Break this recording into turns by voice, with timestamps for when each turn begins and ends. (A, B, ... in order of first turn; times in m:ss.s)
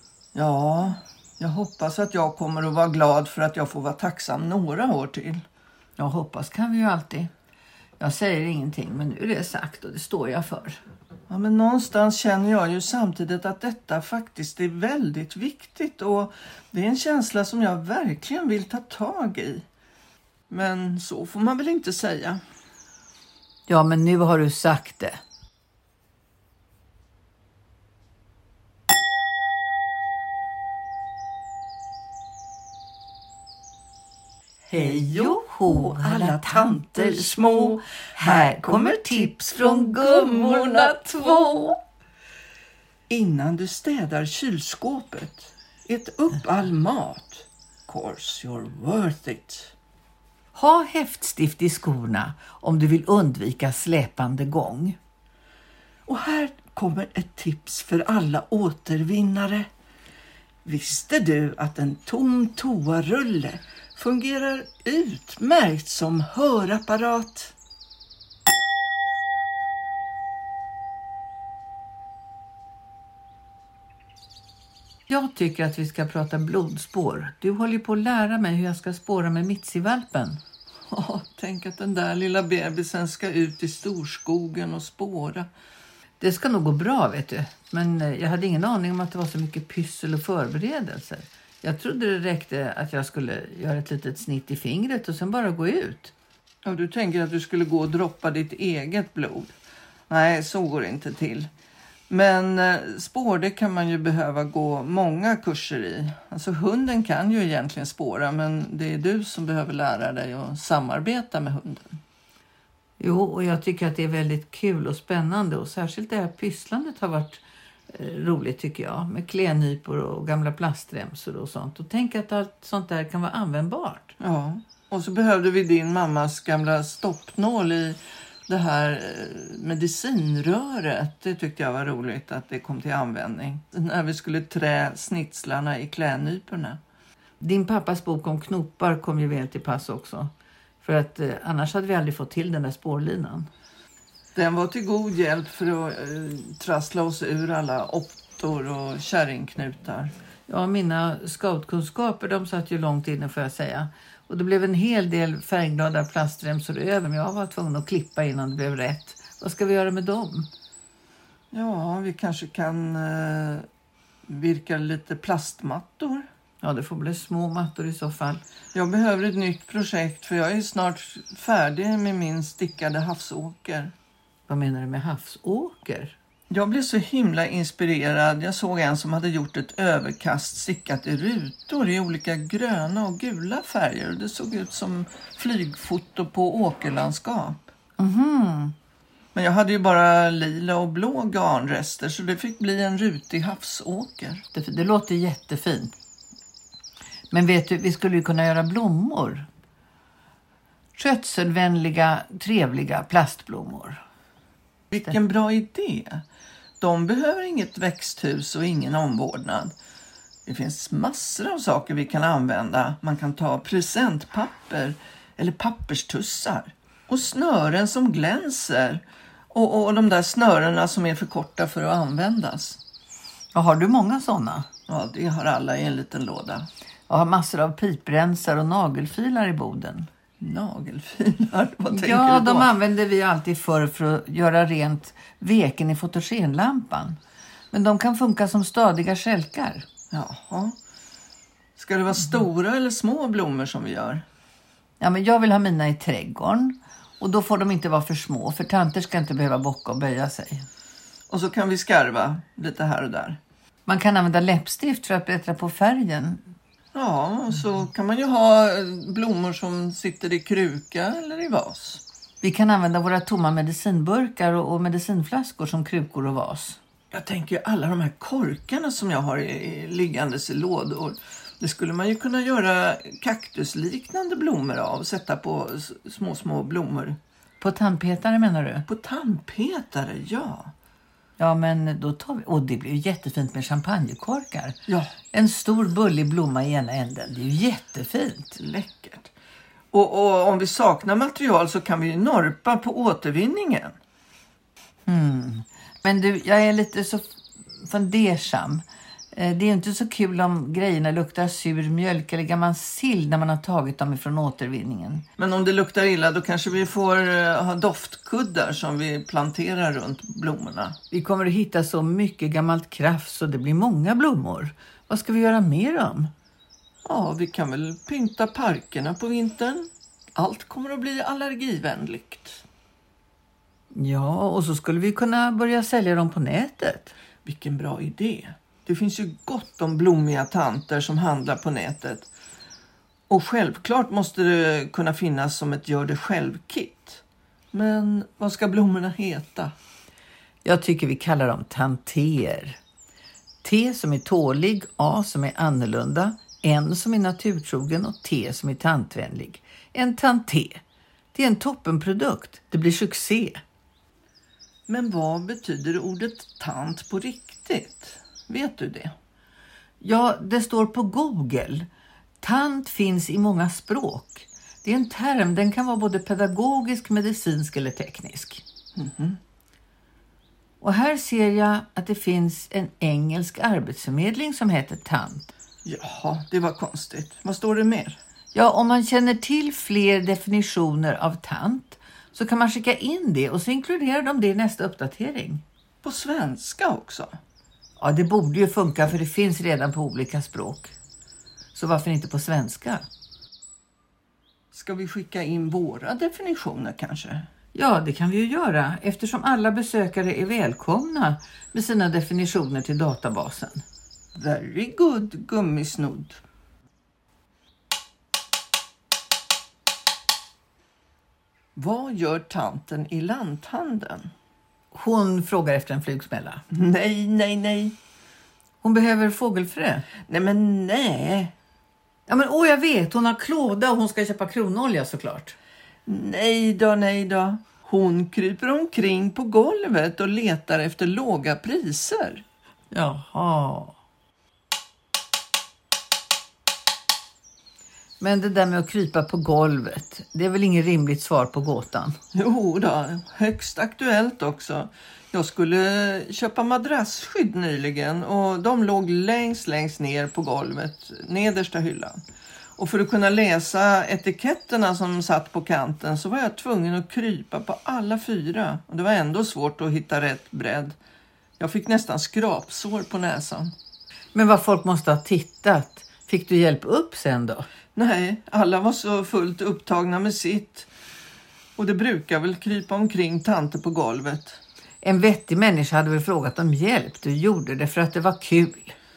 0:00.3-0:05.4 A
0:06.0-0:07.3 B
0:08.0-0:10.8 B
0:11.3-0:19.6 A
0:20.5-0:22.4 A
0:23.7-0:25.2 B
0:34.7-0:41.8 B
0:34.7-0:41.5 A
0:43.1-0:49.7 A
0:50.5-0:55.0 B
0:56.0-0:59.7 A
1:00.6-1:07.5 A
1:15.1-1:20.4 B
1:20.9-1:25.5 A
1:26.2-1:36.1 B
1:36.6-1:39.5 A
1:40.1-1:41.5 A
1:42.1-1:52.0 A
1:53.0-2:04.2 B
2:04.2-2:16.8 A
2:17.4-2:20.3 B
2:20.8-2:23.5 B
2:24.3-2:30.1 A
2:30.5-2:40.5 B
2:41.5-2:43.7 A
2:44.3-2:46.3 A
2:46.6-2:48.4 B
2:48.7-2:53.9 A
2:54.5-2:56.1 B
2:56.5-3:07.6 A
3:08.0-3:08.7 B
3:09.3-3:14.4 A
3:14.5-3:15.9 B
3:17.3-3:19.5 B
3:20.9-3:24.0 B
3:24.9-3:26.2 A
3:26.8-3:29.7 A
3:30.4-3:42.8 A
3:43.5-3:44.7 B
3:44.9-3:46.7 A
3:47.1-3:50.1 B
3:50.4-3:52.7 A
3:51.9-3:57.2 B
3:57.7-3:59.8 B
4:00.1-4:00.8 A
4:01.8-4:04.2 A
4:05.0-4:10.7 B
4:11.3-4:13.4 A
4:13.8-4:16.4 B
4:16.9-4:22.0 A
4:22.4-4:26.8 B
4:27.1-4:37.2 A
4:37.6-4:38.8 B
4:38.9-4:40.7 A
4:41.4-4:44.8 B
4:44.9-4:45.1 A
4:45.3-4:48.6 B
4:48.6-4:49.3 A
4:49.9-4:53.9 A
4:55.0-5:05.2 B
5:05.4-5:11.0 A
5:11.1-5:16.3 B
5:17.0-5:22.6 A
5:23.9-5:27.1 B
5:27.4-5:32.3 A
5:33.3-5:39.7 A
5:40.6-5:42.8 B
5:43.6-5:50.8 B
5:51.3-5:53.6 B
5:54.9-5:59.1 A
6:00.0-6:01.9 B
6:02.4-6:08.6 B
6:08.9-6:09.4 A
6:10.8-6:15.5 B
6:15.8-6:18.2 A
6:18.5-6:25.6 B
6:26.0-6:27.4 A
6:28.0-6:30.9 B
6:31.7-6:33.0 B
6:34.7-6:37.5 A
6:37.7-6:43.8 B
6:44.3-6:46.4 A
6:51.8-6:54.3 A
6:54.9-6:56.6 B
6:56.7-6:58.0 A
6:58.8-7:00.1 B
7:00.2-7:01.5 A
7:02.3-7:05.6 B
7:06.0-7:12.4 A
7:12.9-7:14.0 B
7:18.2-7:22.2 B
7:22.3-7:32.2 A
7:32.8-7:41.0 A
7:41.6-7:43.7 A
7:44.3-7:47.6 B
7:47.9-7:50.9 A
7:51.8-7:54.6 A
7:55.0-7:58.9 B